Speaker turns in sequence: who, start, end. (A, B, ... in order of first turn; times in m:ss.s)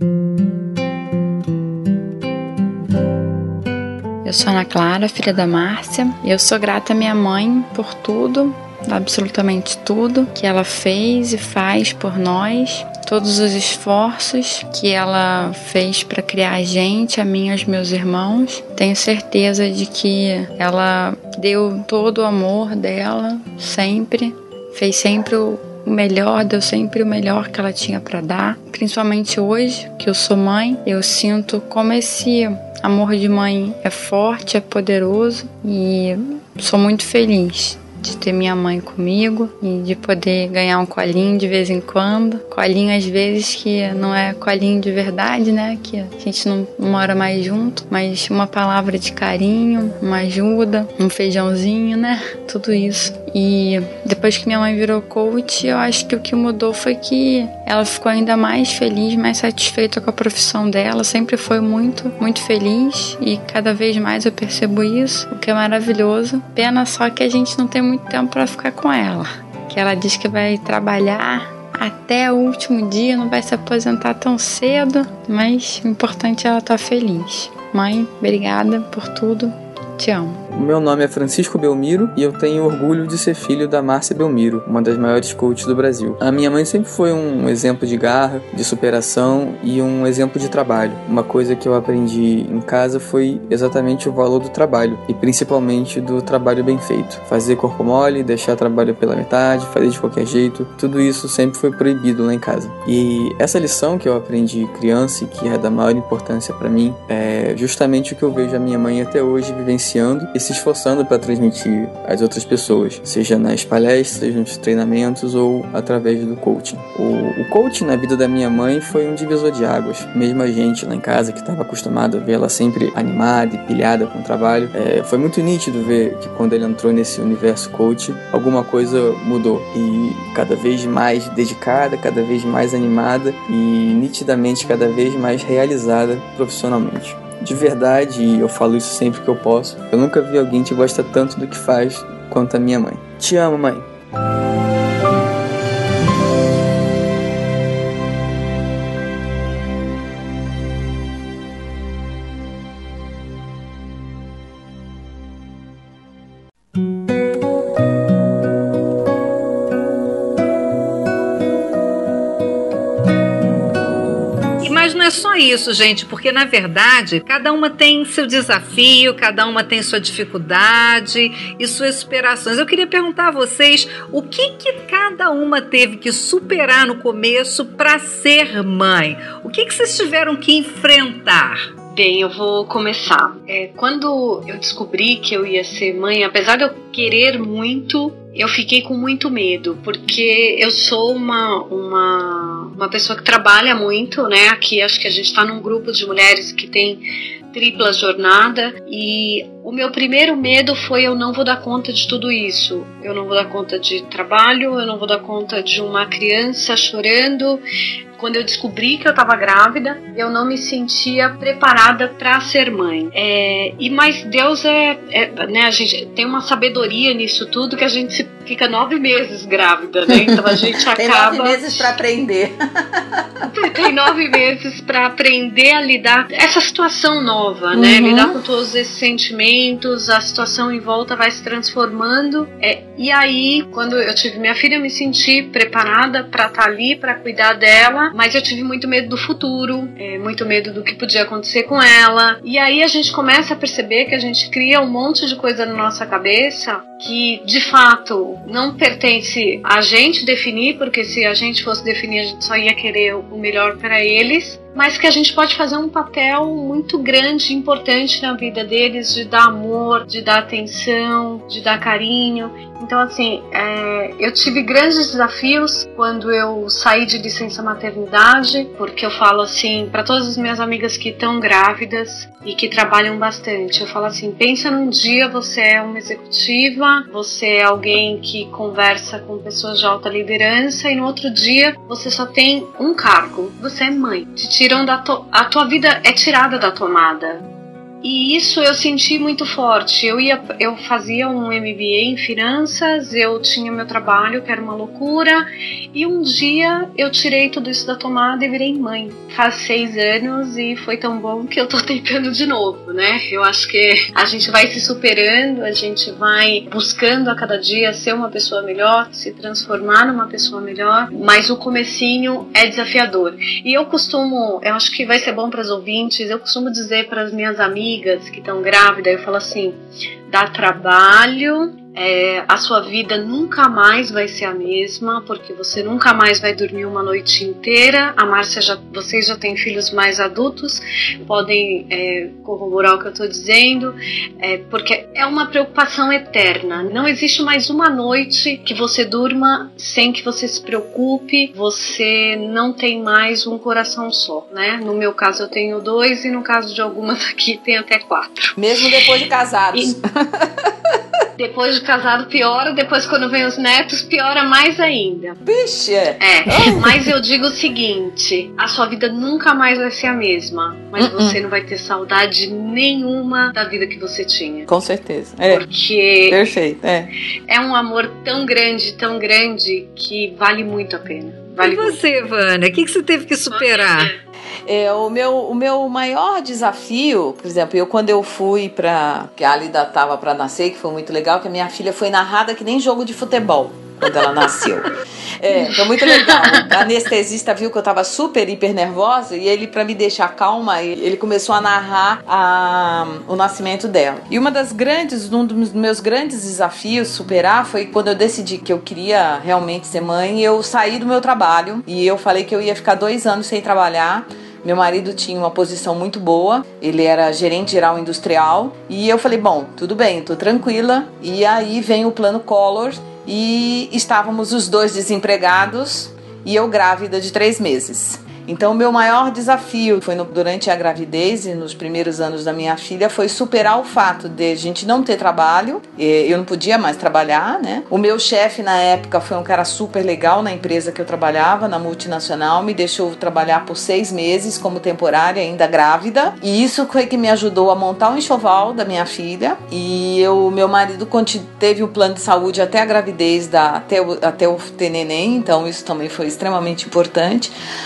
0:04.2-1:20.4 A
1:20.5-2:23.8 B
2:44.6-3:01.7 C
3:01.9-3:27.6 D
3:28.2-3:41.9 D
3:40.1-3:43.5 E
3:43.5-4:47.4 D
3:47.7-3:48.4 E
4:48.0-5:48.6 D
5:48.6-5:51.0 E
5:51.4-5:55.4 D
5:55.4-5:57.1 E
5:56.2-6:04.7 D
6:01.0-6:01.4 E
6:04.7-6:05.6 E
6:05.4-6:06.4 D
6:06.3-6:07.1 E
6:07.5-6:12.0 D
6:11.6-6:14.1 C
6:13.5-6:14.1 D
6:14.6-7:27.5 E